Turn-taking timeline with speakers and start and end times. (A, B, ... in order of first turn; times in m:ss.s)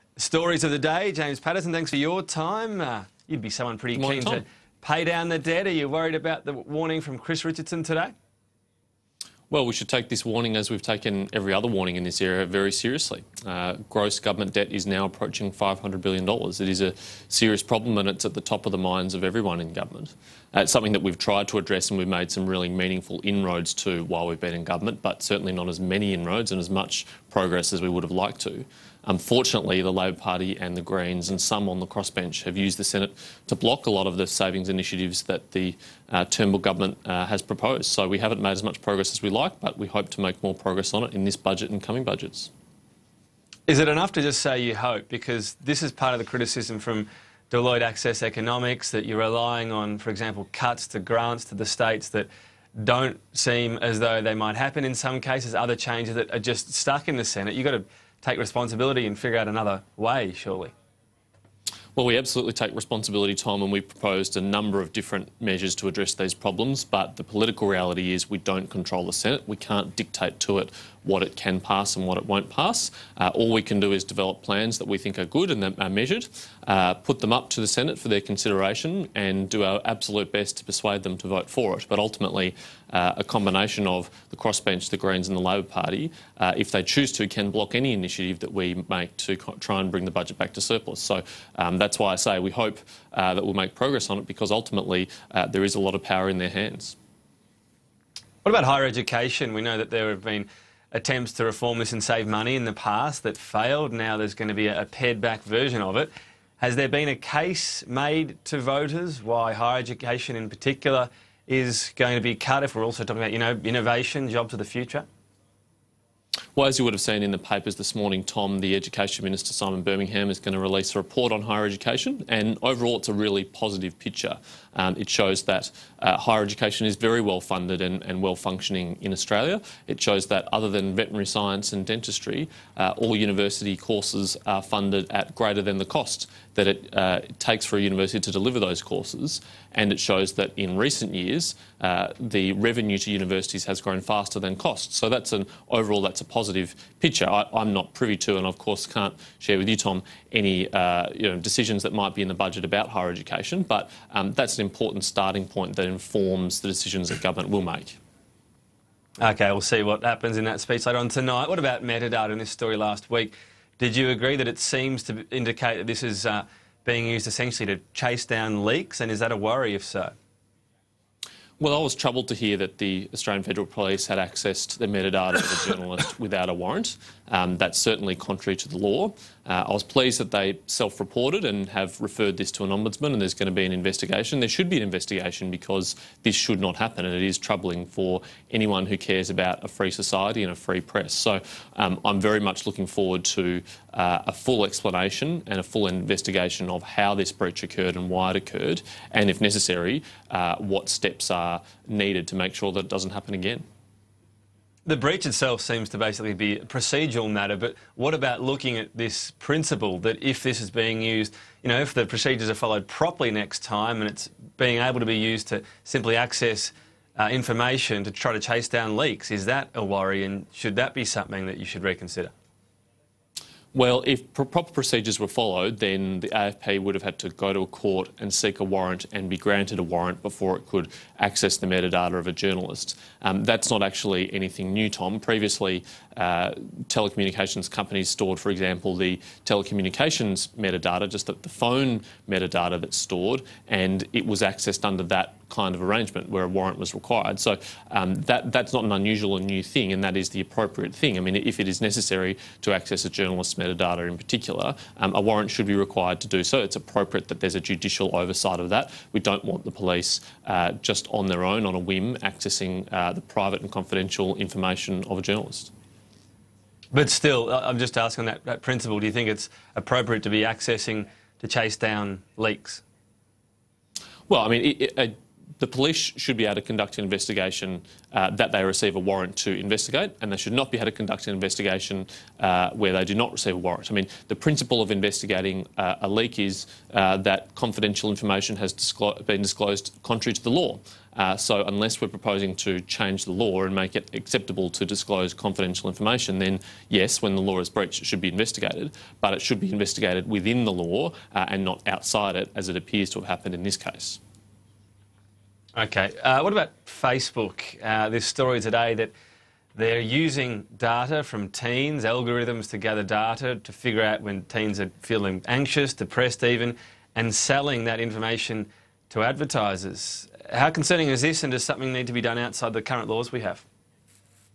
0:00.2-0:08.1 A
0:04.0-0:04.4 B
0:09.5-0:42.5 B
0:43.7-1:00.7 A
1:02.0-1:37.0 B
1:38.4-1:55.1 A
1:56.6-2:38.0 B
2:39.2-2:50.1 A
2:51.6-3:23.6 B
3:24.9-3:42.3 A
3:43.7-4:25.7 B
4:26.9-4:32.8 A
4:34.3-5:04.2 B
5:05.8-5:09.1 A
5:09.8-5:23.6 A